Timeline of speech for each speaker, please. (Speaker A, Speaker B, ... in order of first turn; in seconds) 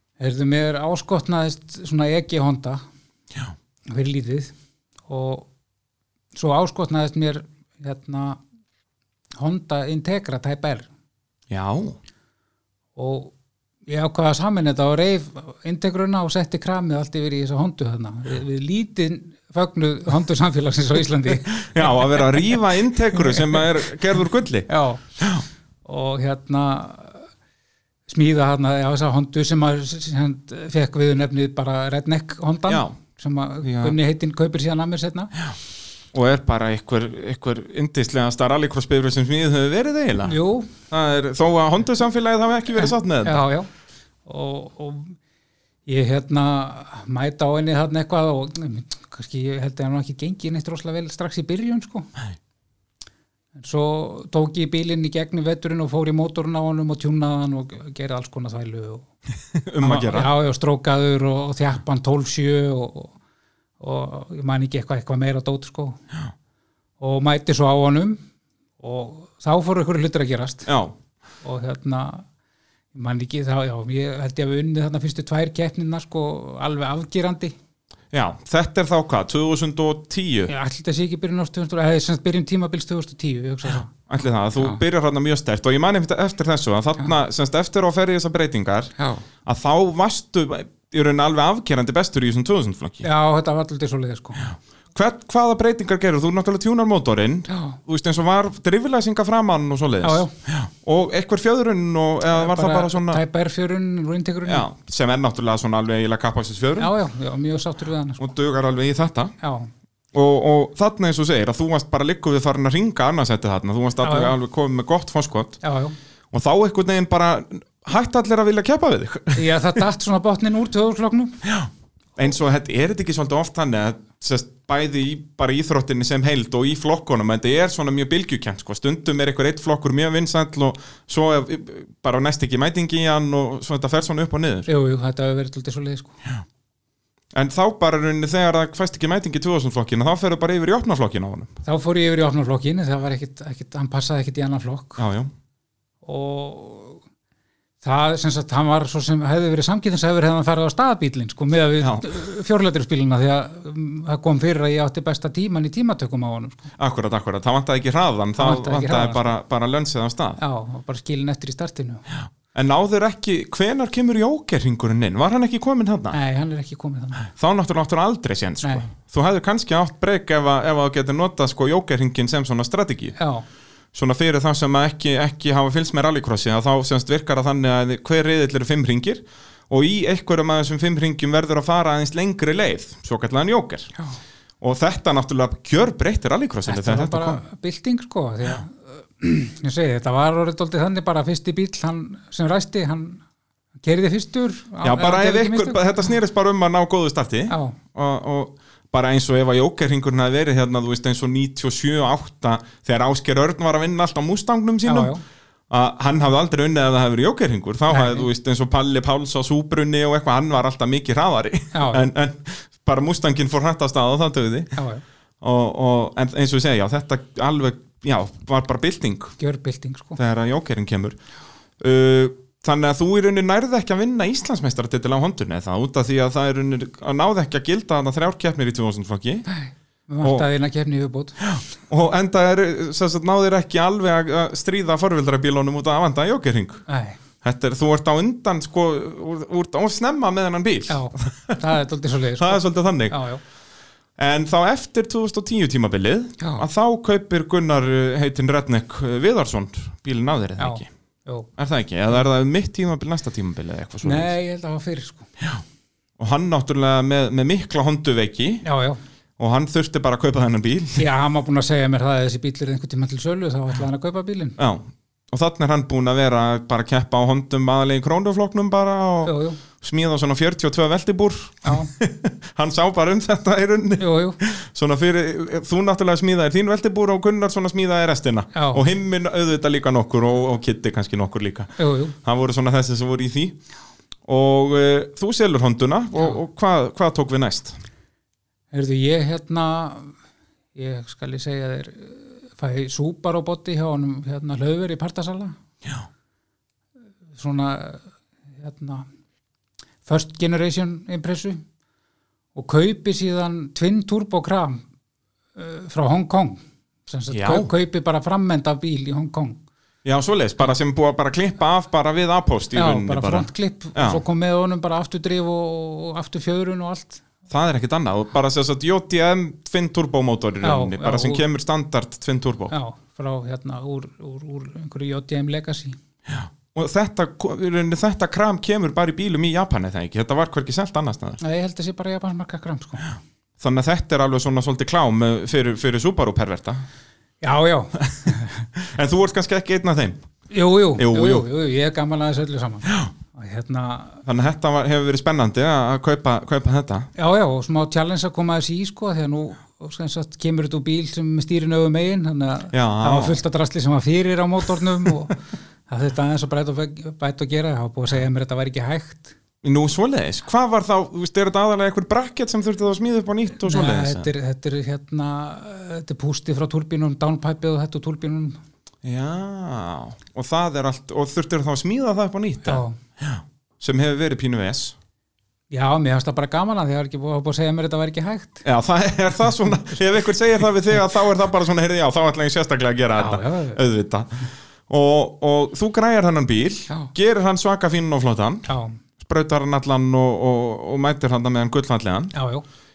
Speaker A: 0.2-2.8, 3.9-4.5, 5.1-5.5, 6.3-8.4, 9.4-10.9, 12.9-13.3, 13.9-22.6, 23.1-23.6, 24.7-25.0, 25.8-27.2, 28.1-35.3, 40.2-40.7, 43.2-43.7, 44.2-45.1, 45.9-52.1, 53.5-59.1, 59.8-63.1, 63.8-66.0, 67.0-68.2, 68.8-70.7, 71.4-72.2, 72.9-77.5, 80.5-83.9, 93.0-94.5, 97.5-97.8, 100.0-100.3, 102.3-104.7, 106.8-108.3, 109.4-109.7, 114.0-114.3, 115.6-116.0, 119.3-121.4, 134.7-136.2, 141.6-145.0, 146.0-147.0, 147.8-156.7, 158.4-159.3, 160.4-162.0, 166.1-167.3, 168.6-168.9, 173.2-173.4, 186.7-193.2, 193.8-196.0, 197.5-197.8, 204.8-205.2, 207.9-208.3, 211.7-212.1, 214.8-215.0, 219.4-220.2, 229.5-231.4, 236.9-237.2, 240.9-243.4, 246.4-246.6, 250.6-251.5, 254.0-255.3, 258.6-259.0, 261.0-264.6, 269.2-269.6, 271.6-271.9, 274.0-274.4, 278.5-278.8, 281.8-282.1, 288.7-290.1, 290.7-295.6, 297.3-298.0, 298.6-299.1, 300.0-301.6, 302.5-304.8, 305.6-309.6, 312.7-317.2, 320.6-321.4, 322.7-326.0, 331.4-333.1, 337.4-338.6, 340.5-344.2, 347.1-359.3, 363.6-368.6, 372.6-372.9, 375.7-378.6, 383.1-383.8, 388.7-389.0, 392.3-392.6
Speaker B: 11.5-12.0, 21.5-25.4, 32.7-32.9, 33.6-33.9, 36.1-40.4, 40.9-43.4, 59.5-60.3, 70.7-70.9, 78.1-80.5, 84.1-88.9, 89.4-93.0, 94.9-103.2, 104.5-106.9, 108.2-109.3, 110.1-115.6, 116.3-119.6, 121.4-134.7, 137.3-141.6, 145.0-145.3, 151.8-152.1, 156.8-160.4, 162.5-166.2, 167.3-173.2, 173.9-183.9, 184.6-187.4, 194.8-205.1, 205.7-214.8, 215.4-219.3, 220.2-221.2, 221.8-229.4, 231.4-236.8, 237.4-241.6, 242.4-243.2, 244.2-250.9, 251.6-254.3, 256.2-258.6, 259.4-261.0, 264.6-283.6, 284.2-287.8, 307.3-307.7, 310.0-314.2, 317.5-322.7, 326.3-331.4, 333.6-336.8, 338.0-340.2, 340.9-341.5, 342.9-343.1, 344.2-347.1, 352.7-353.4, 359.6-364.3, 369.0-374.9, 378.6-392.3